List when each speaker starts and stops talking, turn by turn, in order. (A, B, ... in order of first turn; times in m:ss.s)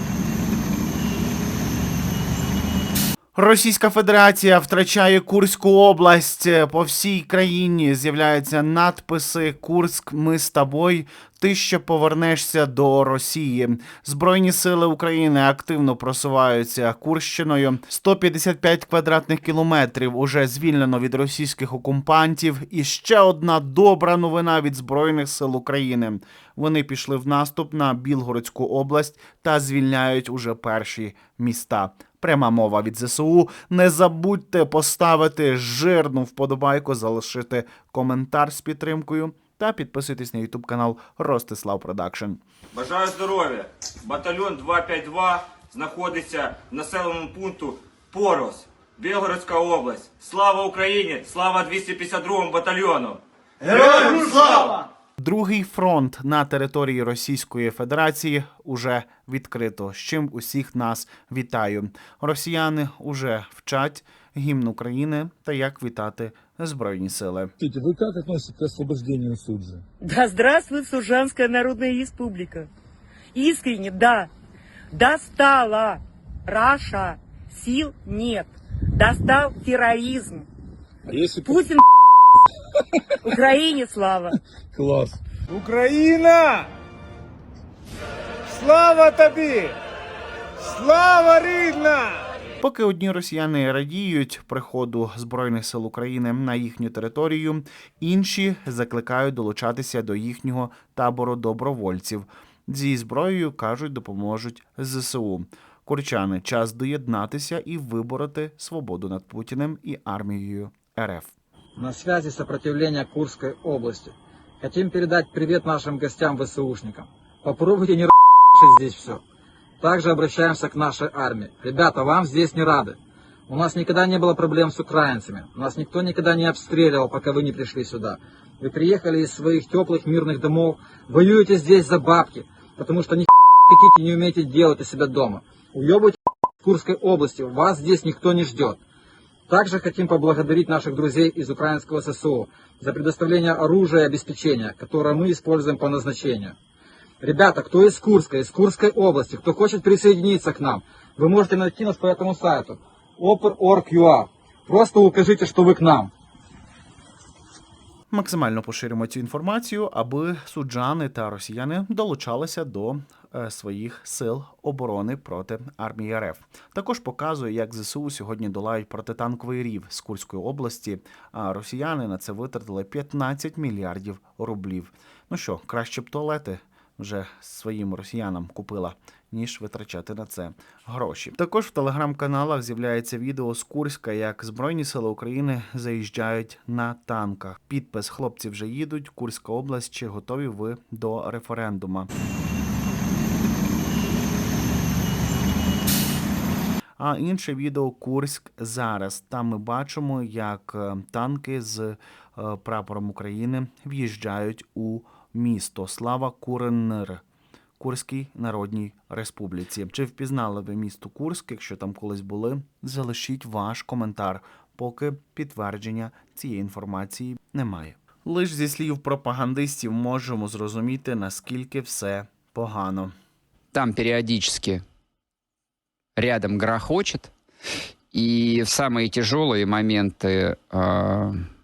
0:03.3-0:42.4 A
0:42.8-0:54.7 B
0:54.2-0:54.4 A
0:55.2-1:07.5 A
1:07.6-1:09.8 C
1:10.0-1:12.7 D
1:13.3-1:14.3 D
1:14.9-1:20.5 D
1:21.1-1:21.5 C
1:21.4-1:21.8 D
1:23.2-1:24.4 D
1:24.7-1:25.2 C
1:25.5-1:26.7 E
1:28.5-1:29.7 E
1:30.6-1:32.2 E
1:32.6-1:51.3 A
1:51.8-1:59.2 F
1:59.8-2:03.0 F
2:03.5-2:18.8 F
2:19.5-2:26.5 F
2:27.2-2:36.1 F
2:38.1-3:12.1 A
3:17.0-3:27.2 A
3:27.8-3:43.1 A
3:43.7-3:44.8 G
3:46.2-3:47.3 G
3:48.1-3:51.4 G